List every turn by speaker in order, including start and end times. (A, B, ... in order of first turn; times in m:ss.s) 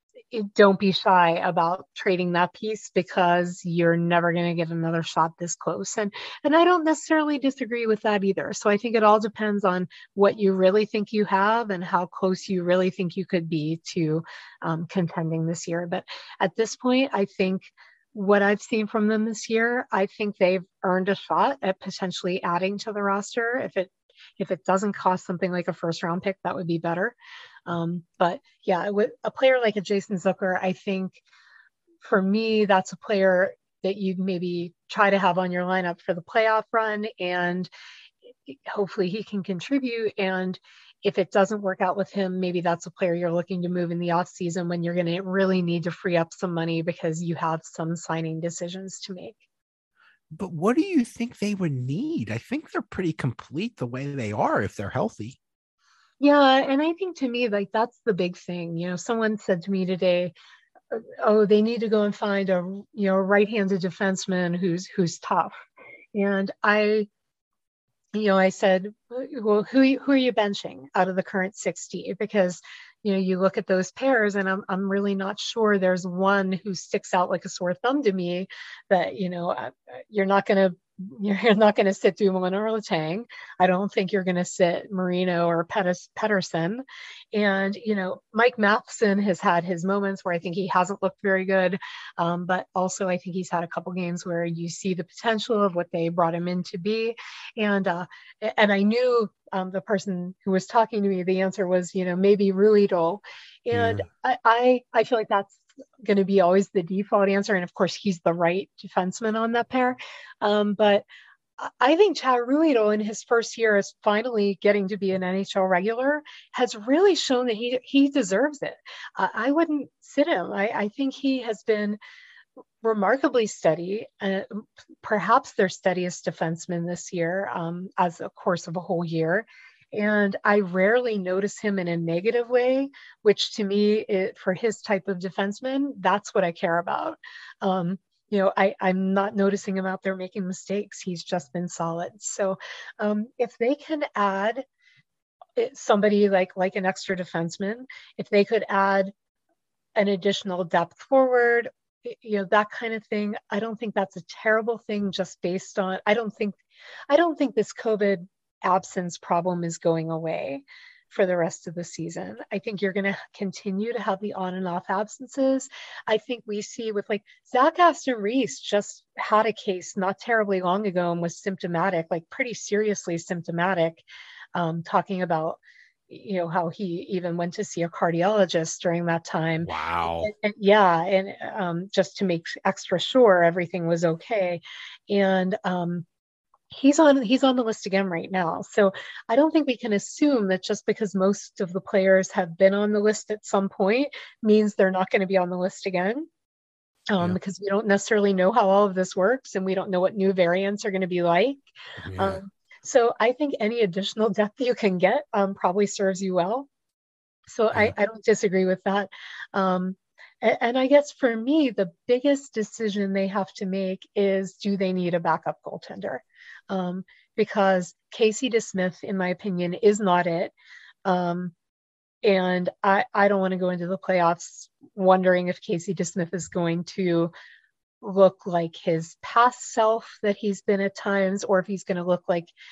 0:00.3-0:27.2 A
0:27.7-0:31.2 A
0:32.0-0:37.7 A
0:38.4-0:49.4 A
0:50.4-0:55.4 B
0:56.2-1:00.3 A
1:00.9-1:05.5 A
1:06.2-1:07.1 A
1:08.1-1:51.0 A
1:43.7-1:44.0 B
1:51.6-2:02.0 A
2:02.8-2:24.6 A
2:25.6-2:29.1 A
2:30.0-2:36.6 A
2:37.1-3:06.1 A
2:59.6-3:00.3 B
3:06.7-3:16.3 A
3:17.1-3:21.6 A
3:22.0-3:22.4 B
3:22.2-3:26.7 A
3:27.5-3:40.5 A
3:41.0-3:41.5 A
3:42.2-3:47.3 A
3:48.0-3:52.5 A